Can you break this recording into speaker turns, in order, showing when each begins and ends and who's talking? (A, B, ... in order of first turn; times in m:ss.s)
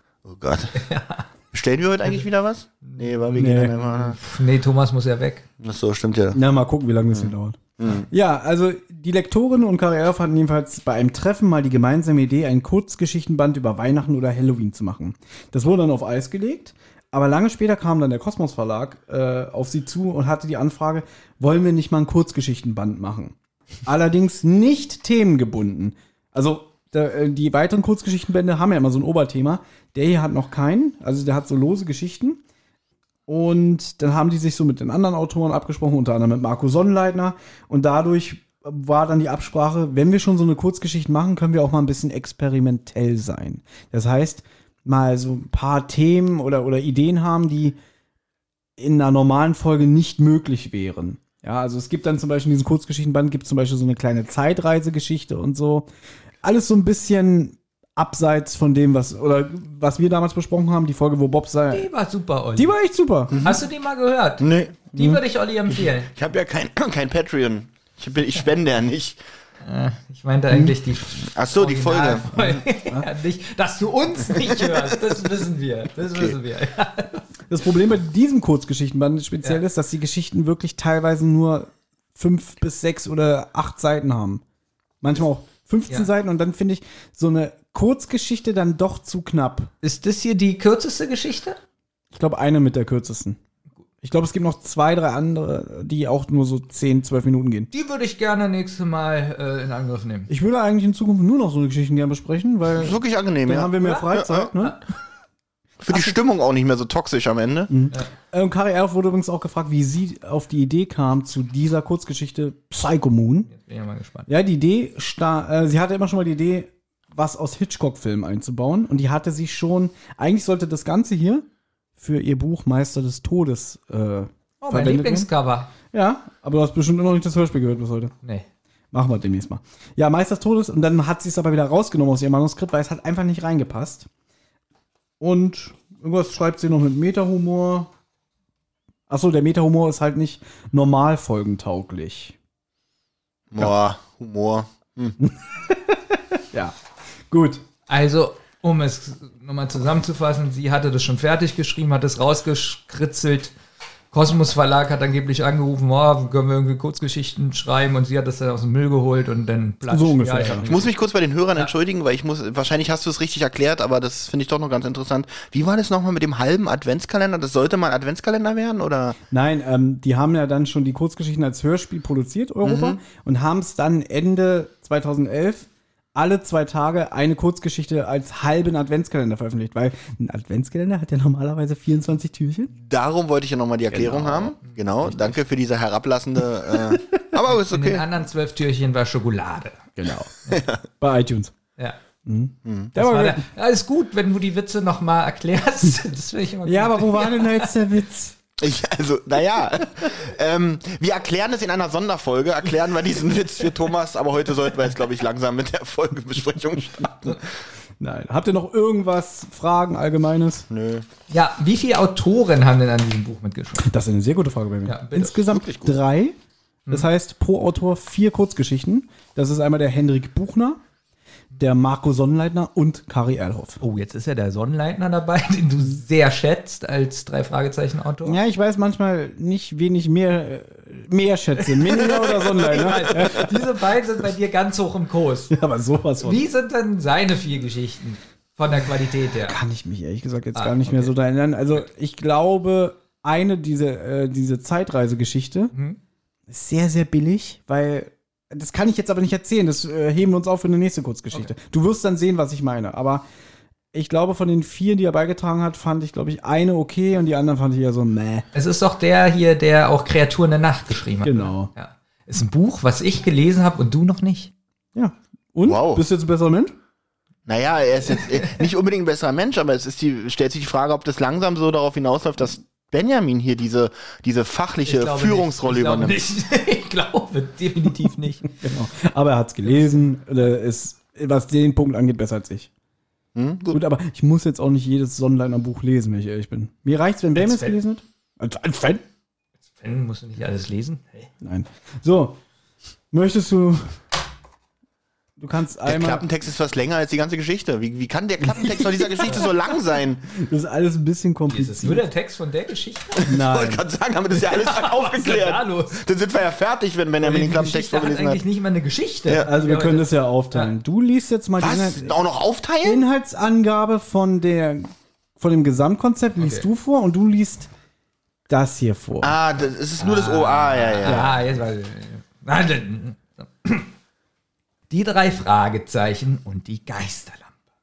0:00.2-0:00.8 A
0:00.8-0:01.3 B
0:01.5-0:04.2 A
0:02.8-0:03.2 B
0:03.4-0:03.7 C
0:03.8-0:05.5 B
0:05.6-0:06.4 A
0:06.3-0:23.3 C
0:07.1-0:08.1 A
0:23.9-0:32.4 C
0:33.3-0:47.8 C
0:48.8-0:55.9 C
0:56.4-1:01.9 C
1:01.7-1:02.7 B
1:02.6-1:03.4 C
1:03.3-1:03.6 A
1:03.4-1:06.1 B
1:04.4-1:04.7 A
1:04.9-1:05.2 C
1:05.7-1:09.2 A
1:09.6-1:17.2 B
1:11.2-1:12.4 A
1:12.4-1:13.1 C
1:17.5-1:24.4 C
1:25.0-1:29.7 C
1:29.8-1:31.6 B
1:32.1-1:33.4 C
1:34.0-1:37.7 C
1:37.7-1:40.3 B
1:40.3-1:44.8 C
1:42.7-1:44.5 A
1:45.8-1:47.7 A
1:47.7-1:53.5 C
1:53.5-1:54.3 B
1:54.3-2:01.4 C
2:02.0-2:05.3 C
2:04.6-2:05.7 B
2:05.9-2:08.1 C
2:08.9-2:14.1 C
2:15.2-2:17.9 C
2:19.1-2:22.4 C
2:23.5-2:25.2 A
2:25.2-2:26.8 C
2:27.3-2:27.6 C
2:27.9-2:33.5 B
2:34.1-2:40.9 B
2:39.9-2:40.7 C
2:40.6-2:49.2 A
2:49.3-3:02.7 C
2:52.6-2:53.0 A
3:02.7-3:08.1 A
3:03.9-3:05.3 B
3:07.5-3:09.9 B
3:10.0-3:10.3 C
3:10.5-3:10.8 A
3:11.0-3:11.5 C
3:12.3-3:13.4 C
3:12.6-3:12.9 A
3:13.0-3:17.7 B
3:16.7-3:18.4 C
3:18.6-3:27.4 A
3:28.0-3:30.7 C
3:30.7-3:31.1 A
3:31.3-3:33.9 B
3:33.8-3:36.4 C
3:34.9-3:35.4 B
3:35.4-3:36.0 A
3:36.9-3:40.8 C
3:41.6-3:43.8 C
3:43.8-3:48.4 B
3:48.2-3:53.5 C
3:51.8-3:55.5 B
3:55.5-3:56.4 C
3:56.2-3:59.6 B
3:59.4-4:05.7 C
4:00.6-4:01.1 B
4:06.5-4:13.2 C
4:13.9-4:18.5 C
4:18.6-4:24.5 B
4:21.2-4:21.7 C
4:25.0-4:26.8 C
4:25.6-4:26.0 A
4:27.5-4:36.2 A
4:28.3-4:28.7 B
4:34.8-4:38.6 B
4:38.6-4:42.7 C
4:43.4-4:43.8 A
4:43.7-4:49.0 C
4:47.4-4:47.8 B
4:49.8-4:51.3 B
4:51.4-4:52.4 C
4:53.1-4:54.0 C
4:55.4-4:56.2 C
4:55.8-5:00.2 A
5:00.4-5:02.0 C
5:01.5-5:03.2 B
5:03.2-5:08.4 A
5:03.3-5:03.8 C
5:04.3-5:06.0 B
5:07.2-5:10.7 B
5:09.5-5:12.2 C
5:11.6-5:13.0 A
5:12.8-5:17.7 C
5:16.4-5:16.7 B
5:18.5-5:19.4 C
5:19.2-5:21.3 A
5:20.0-5:23.9 B
5:21.0-5:21.3 C
5:24.9-5:27.5 B